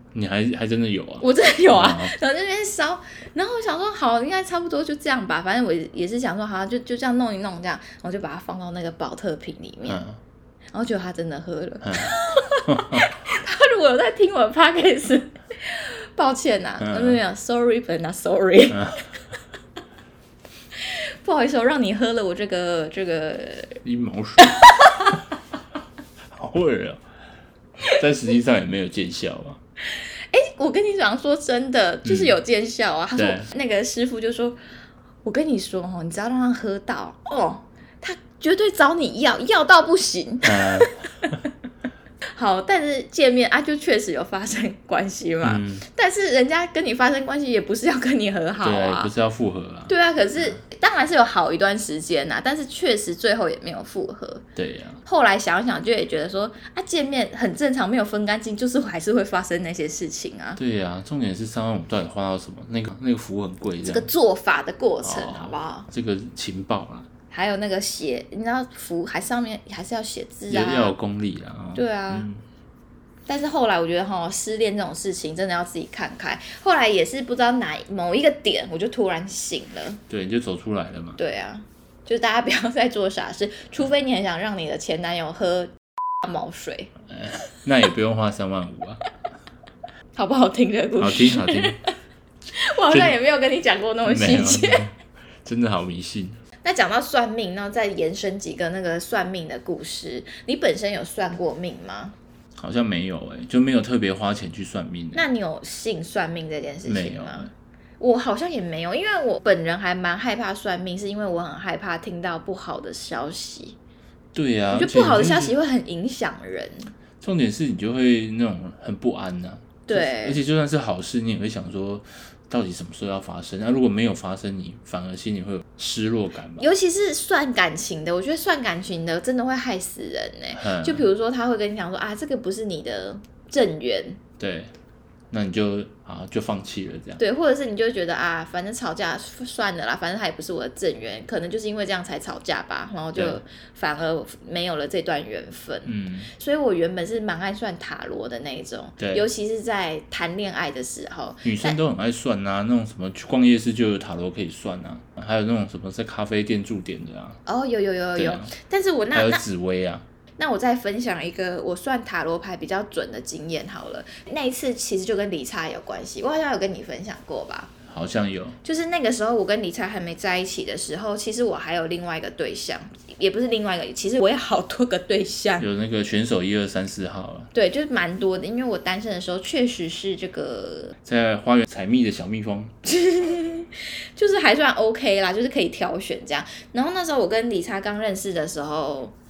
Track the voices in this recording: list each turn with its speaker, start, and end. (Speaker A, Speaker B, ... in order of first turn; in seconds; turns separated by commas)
Speaker A: 0.1-2.1, Speaker B: 1.2-10.0, Speaker A: 9.9-10.2, Speaker B: 10.7-19.0, Speaker A: 11.8-13.1, Speaker A: 16.8-17.2, Speaker B: 20.8-23.8, Speaker A: 23.8-24.6, Speaker B: 24.4-25.2, Speaker A: 26.3-27.0, Speaker A: 27.9-29.6, Speaker B: 29.9-34.6, Speaker A: 32.0-32.4, Speaker A: 33.2-33.5, Speaker B: 35.2-41.3, Speaker A: 40.4-41.4, Speaker B: 42.3-49.1, Speaker A: 45.4-45.9, Speaker A: 48.6-50.6, Speaker B: 49.9-54.5, Speaker A: 54.6-55.0, Speaker B: 55.0-60.6, Speaker A: 60.6-64.1, Speaker B: 63.8-65.9, Speaker A: 65.0-67.1, Speaker B: 67.3-71.0, Speaker A: 70.5-72.4, Speaker B: 71.8-72.3, Speaker B: 73.3-80.0, Speaker A: 80.1-81.2, Speaker B: 81.2-86.9, Speaker A: 87.1-89.0, Speaker B: 90.2-91.9, Speaker A: 91.0-91.8, Speaker B: 92.5-94.9, Speaker A: 94.0-96.4, Speaker B: 96.6-102.2, Speaker A: 102.6-105.3, Speaker B: 105.1-113.8, Speaker A: 106.8-107.5, Speaker A: 114.3-115.5, Speaker B: 114.7-116.9, Speaker A: 117.2-126.7, Speaker B: 119.9-120.4, Speaker B: 126.6-134.2, Speaker A: 130.6-131.1, Speaker A: 134.4-134.7, Speaker A: 135.3-137.2, Speaker B: 137.2-151.8, Speaker A: 145.9-146.3, Speaker A: 149.0-149.3, Speaker A: 151.4-157.4, Speaker B: 157.5-159.4, Speaker A: 158.2-158.5, Speaker A: 159.1-160.1, Speaker B: 160.4-167.7, Speaker A: 167.9-168.6, Speaker B: 168.6-175.7, Speaker A: 175.6-177.5, Speaker B: 177.5-180.9, Speaker A: 181.0-182.7, Speaker B: 182.8-189.1